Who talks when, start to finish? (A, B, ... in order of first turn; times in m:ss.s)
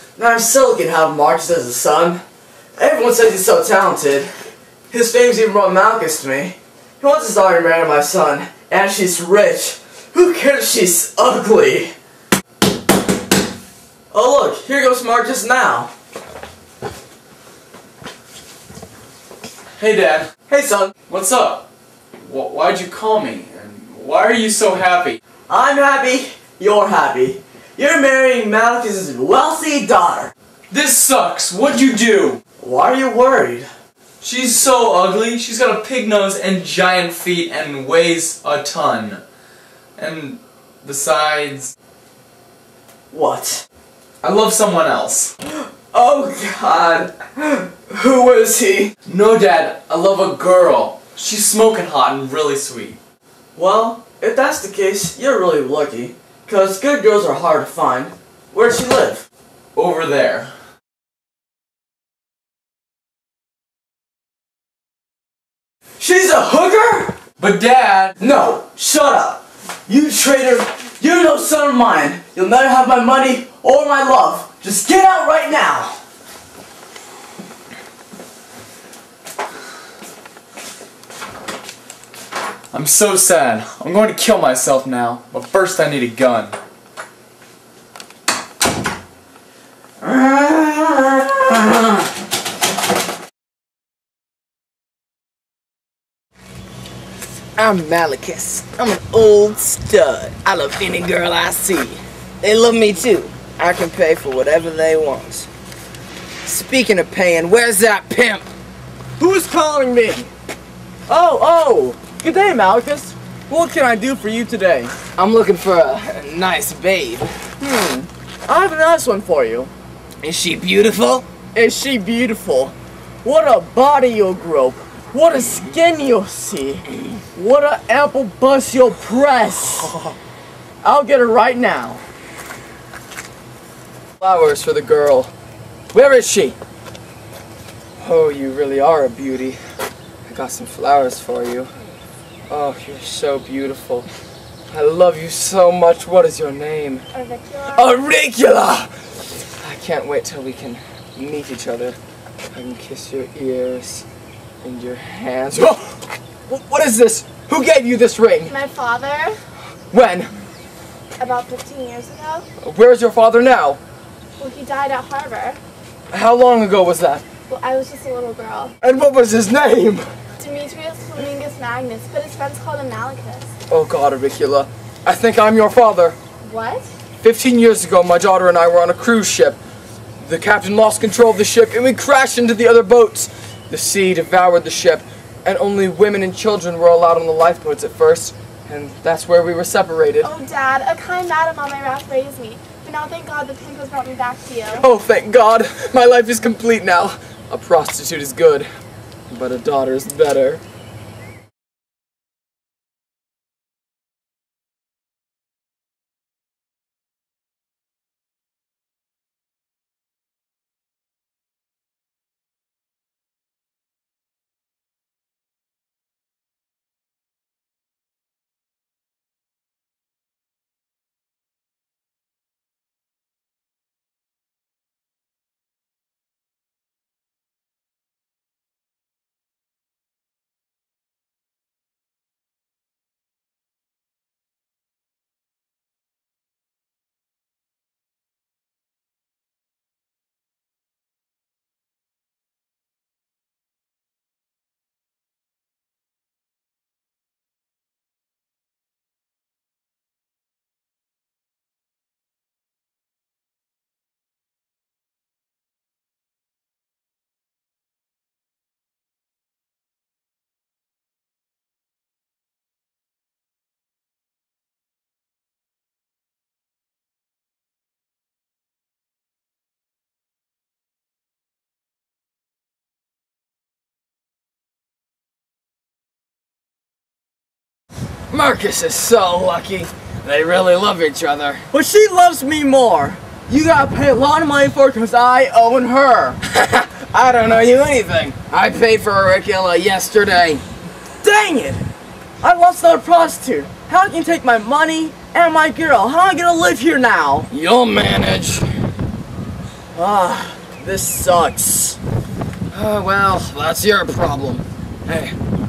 0:00.2-0:02.2 A
0:02.8-0:04.3 A
0:04.9-0:11.9 A
0:14.1-0:15.9 A
0:19.8-0:20.3 B
0:20.5-0:20.9 A
0:21.1-0:21.7 B
0:22.2-0:25.2 B
0:25.5-0:30.3 A
0:30.7-0:32.4 B
0:32.6-0:33.7 A
0:34.2-0:39.2 B
0:40.0-0:41.7 B
0:43.1-0:43.6 A
0:44.2-0:45.3 B
0:45.5-0:48.9 A
0:49.0-0:53.0 B
0:53.5-0:59.2 A
0:59.7-1:00.5 B
1:06.0-1:07.2 A
1:07.4-1:08.2 B
1:08.2-1:16.0 A
1:22.7-1:26.6 B
1:30.0-1:31.9 A
1:37.6-1:45.5 C
1:46.4-1:48.4 C
1:49.2-1:50.3 A
1:51.1-1:55.0 A
1:55.1-1:57.4 C
1:57.6-1:59.7 A
2:00.2-2:01.2 C
2:01.5-2:09.9 A
2:10.8-2:12.0 A
2:14.2-2:15.3 C
2:15.9-2:16.6 C
2:18.0-2:19.6 C
2:20.2-2:21.7 C
2:22.5-2:24.1 C
2:24.7-2:27.0 C
2:27.1-2:27.9 D
2:27.7-2:28.9 C
2:29.5-2:32.0 C
2:32.5-2:34.0 C
2:34.6-2:38.5 C
2:38.4-2:39.4 D
2:39.9-2:40.3 C
2:41.2-2:42.4 D
2:42.6-2:43.8 C
2:44.4-2:45.6 D
2:46.1-2:47.2 C
2:47.5-2:48.7 D
2:48.8-2:50.1 C
2:50.4-2:53.5 D
2:53.7-2:56.2 C
2:56.4-2:56.9 D
2:57.2-2:59.6 C
3:00.2-3:10.3 C
3:10.2-3:14.9 D
3:14.8-3:18.7 C
3:19.3-3:20.6 C
4:38.3-4:41.7 C
4:41.7-4:46.4 A
4:46.4-4:50.6 C
4:51.2-4:51.8 A
4:52.4-4:57.5 A
4:57.5-4:58.7 C
4:59.9-5:02.0 A
5:02.7-5:05.4 C